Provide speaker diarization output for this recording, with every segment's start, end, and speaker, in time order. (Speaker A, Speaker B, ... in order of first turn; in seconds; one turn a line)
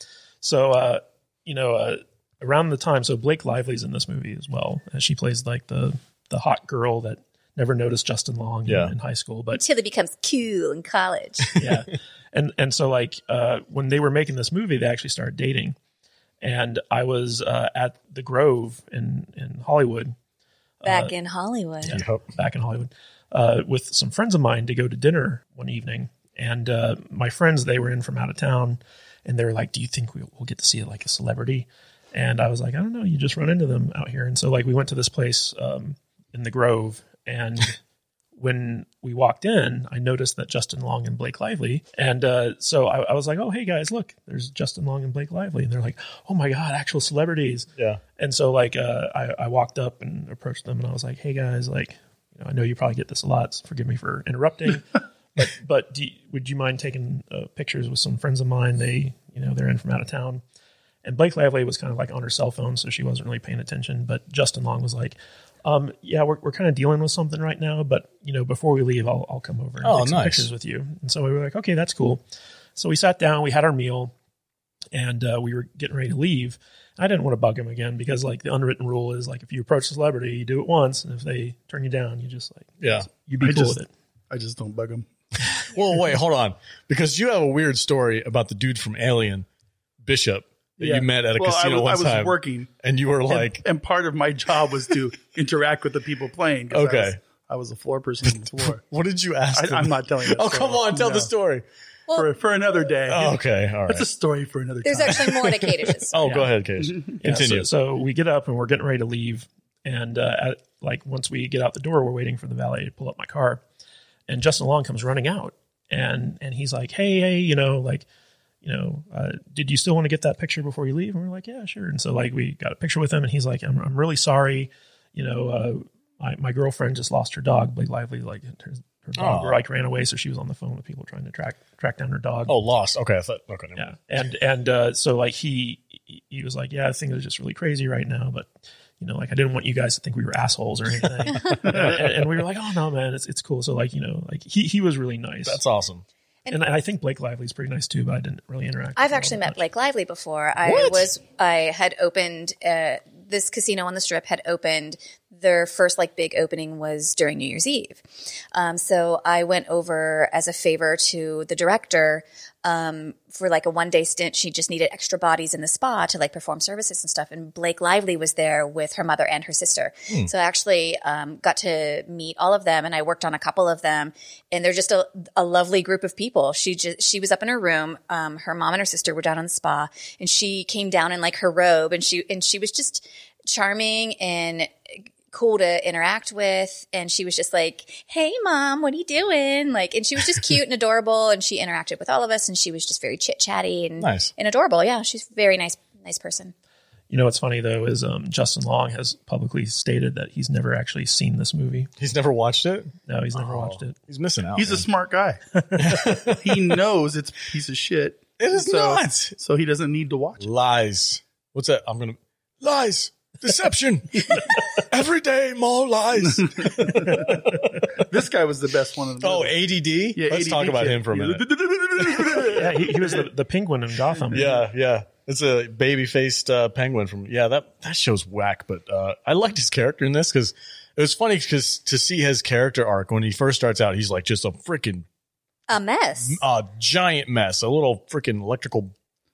Speaker A: 0.4-9.6
Speaker B: 8.7-8.9
Speaker C: 9.5-11.6
Speaker A: 11.6-15.8
Speaker A: 16.4-20.1
Speaker A: 20.8-21.1
Speaker C: 20.8-22.0
Speaker B: 21.9-22.2
Speaker A: 21.9-37.8
Speaker A: 38.4-60.4
Speaker B: 47.8-48.0
Speaker A: 61.0-72.2
Speaker B: 69.8-70.5
Speaker A: 72.8-74.1
Speaker A: 74.9-83.9
Speaker B: 82.8-83.1
Speaker D: 83.4-83.8
Speaker D: 84.3-85.1
Speaker B: 85.7-89.5
Speaker B: 90.0-93.6
Speaker D: 90.8-92.7
Speaker D: 93.3-98.8
Speaker B: 96.7-97.2
Speaker B: 98.2-101.6
Speaker D: 99.5-101.3
Speaker D: 102.1-105.5
Speaker B: 103.1-104.0
Speaker C: 104.8-106.2
Speaker B: 105.1-107.7
Speaker A: 106.2-106.5
Speaker D: 106.8-107.1
Speaker A: 107.2-113.6
Speaker A: 114.3-118.0
Speaker A: 118.6-132.6
Speaker B: 129.2-129.6
Speaker B: 132.5-133.8
Speaker A: 133.8-145.6
Speaker B: 145.4-146.0
Speaker A: 146.5-149.6
Speaker C: 149.0-158.0
Speaker B: 150.6-151.0
Speaker C: 158.5-196.5
Speaker B: 194.0-194.3
Speaker A: 197.1-201.9
Speaker B: 202.0-204.8
Speaker A: 203.1-203.9
Speaker D: 204.5-210.4
Speaker A: 205.7-206.1
Speaker B: 205.8-206.7
Speaker B: 208.4-209.3
Speaker B: 210.4-217.5
Speaker D: 216.2-219.6
Speaker A: 217.1-217.6
Speaker B: 219.2-221.4
Speaker D: 220.1-223.2
Speaker B: 222.0-222.3
Speaker A: 222.4-224.6
Speaker B: 224.3-235.0
Speaker C: 235.7-236.4
Speaker B: 236.2-238.9